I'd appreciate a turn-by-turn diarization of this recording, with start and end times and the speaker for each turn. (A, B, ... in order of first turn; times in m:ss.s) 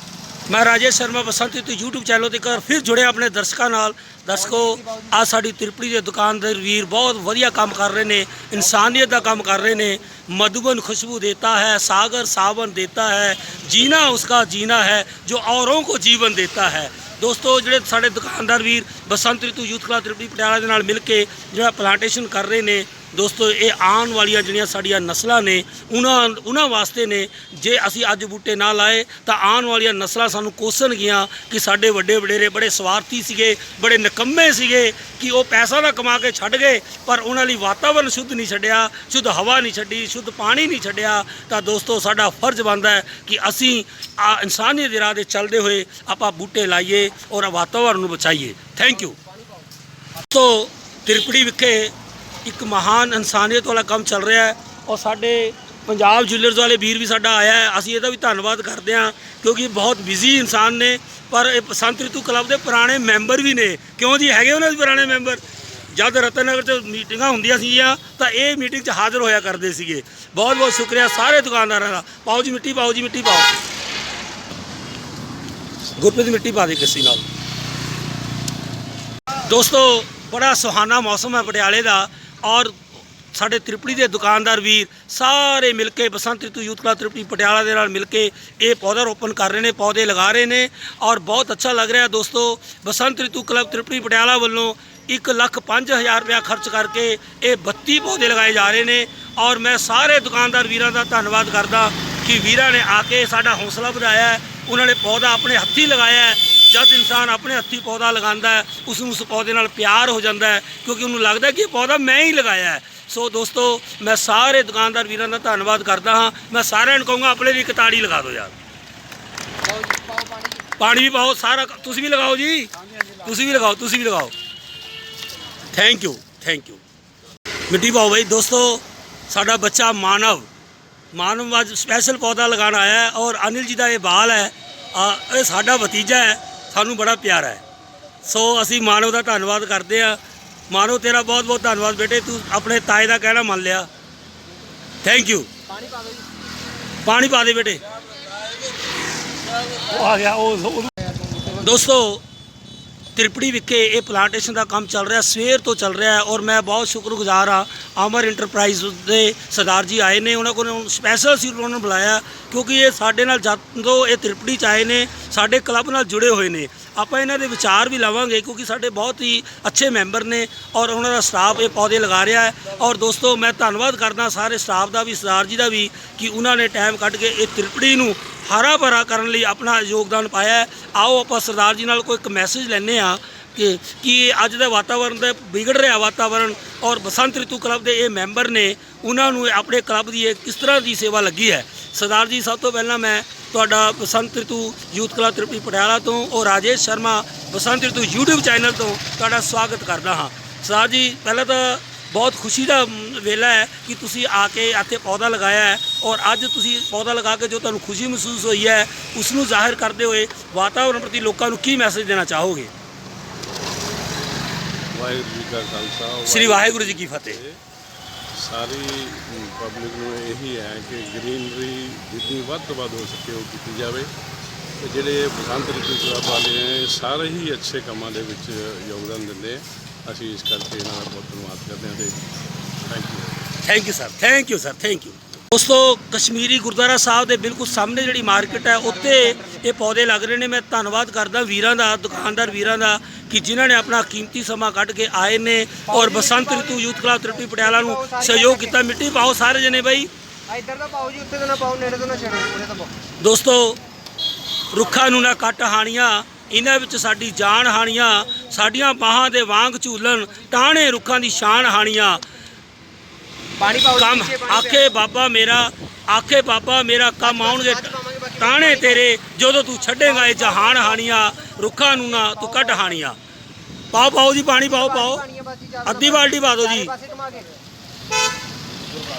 0:00.5-0:49.2 A
0:50.3-1:13.5 A
1:16.0-1:17.2 A
1:19.5-1:58.5 A
1:59.7-2:00.6 B
2:00.8-2:04.3 A
2:05.7-2:06.8 A
2:07.7-2:10.5 A
2:11.1-2:17.6 A
2:18.2-2:23.9 A
2:25.0-2:25.5 A
2:25.7-2:26.3 B
2:27.0-2:27.8 A
2:29.7-2:32.2 A
2:33.2-3:32.7 A
3:34.9-3:37.6 C
3:36.2-3:37.4 A
3:38.4-3:44.1 C
3:44.8-3:52.3 C
3:52.9-3:53.5 C
3:53.6-4:10.1 A
3:58.7-3:59.4 B
4:06.0-4:06.9 B
4:07.4-4:08.7 B
4:10.5-4:12.9 B
4:13.2-4:13.8 A
4:14.7-4:22.2 A
4:23.6-4:24.8 B
4:23.6-4:33.2 A
4:27.3-4:29.0 B
4:30.2-4:30.8 B
4:33.9-4:35.2 A
4:34.8-4:37.5 B
4:35.8-4:36.9 A